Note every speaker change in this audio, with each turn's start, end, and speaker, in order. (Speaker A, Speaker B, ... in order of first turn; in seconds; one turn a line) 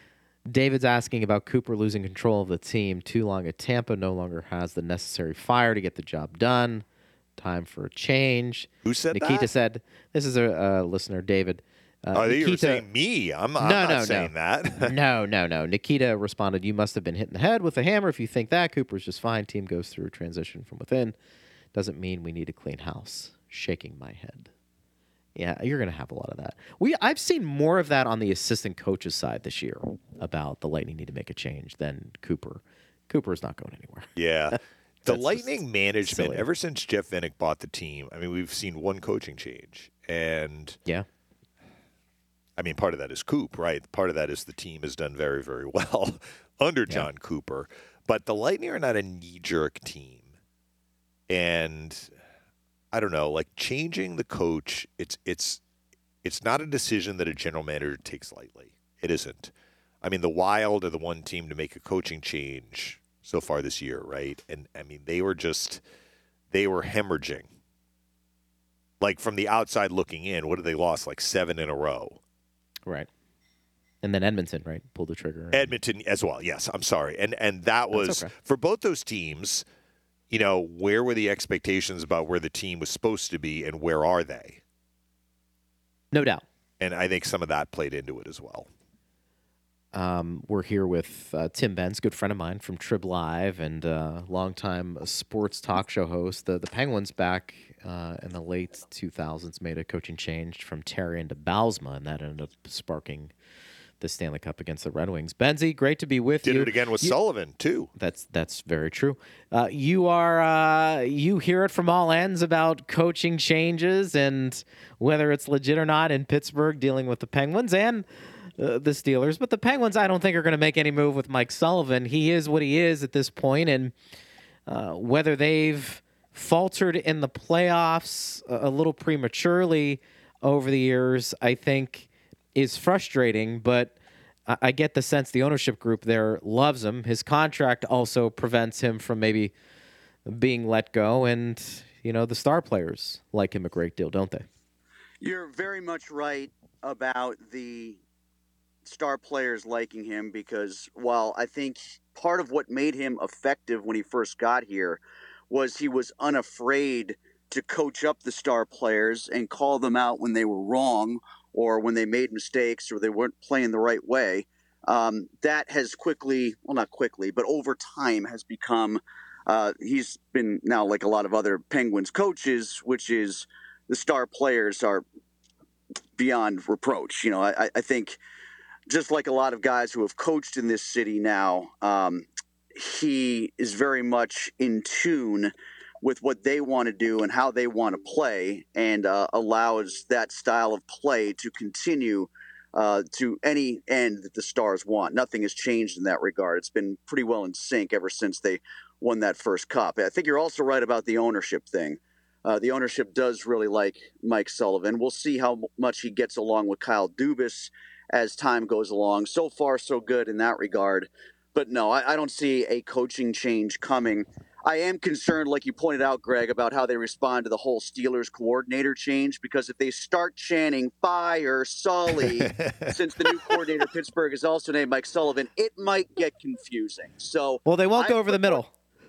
Speaker A: 0.5-6.8
Speaker A: 7.4-12.8
Speaker B: 8.8-9.5
Speaker B: 12.1-14.9
Speaker A: 13.6-21.1
Speaker A: 21.7-24.5
Speaker A: 25.4-36.5
Speaker B: 34.1-40.8
Speaker B: 42.6-50.3
Speaker B: 51.3-52.1
Speaker B: 52.9-55.6
Speaker B: 56.2-65.8
Speaker B: 66.5-67.5
Speaker B: 69.0-72.2
Speaker A: 74.0-75.8
Speaker B: 75.5-79.7
Speaker A: 77.9-78.3
Speaker B: 80.3-84.6
Speaker A: 86.1-86.4
Speaker B: 86.8-88.7
Speaker A: 89.9-103.3
Speaker A: 104.0-107.2
Speaker B: 106.4-107.9
Speaker A: 108.0-123.9
Speaker A: 124.7-133.9
Speaker A: 134.5-139.5
Speaker A: 140.3-144.5
Speaker C: 145.2-148.0
Speaker C: 148.8-175.1
Speaker C: 176.2-178.2
Speaker C: 178.9-228.6
Speaker B: 222.2-223.6
Speaker A: 227.6-228.7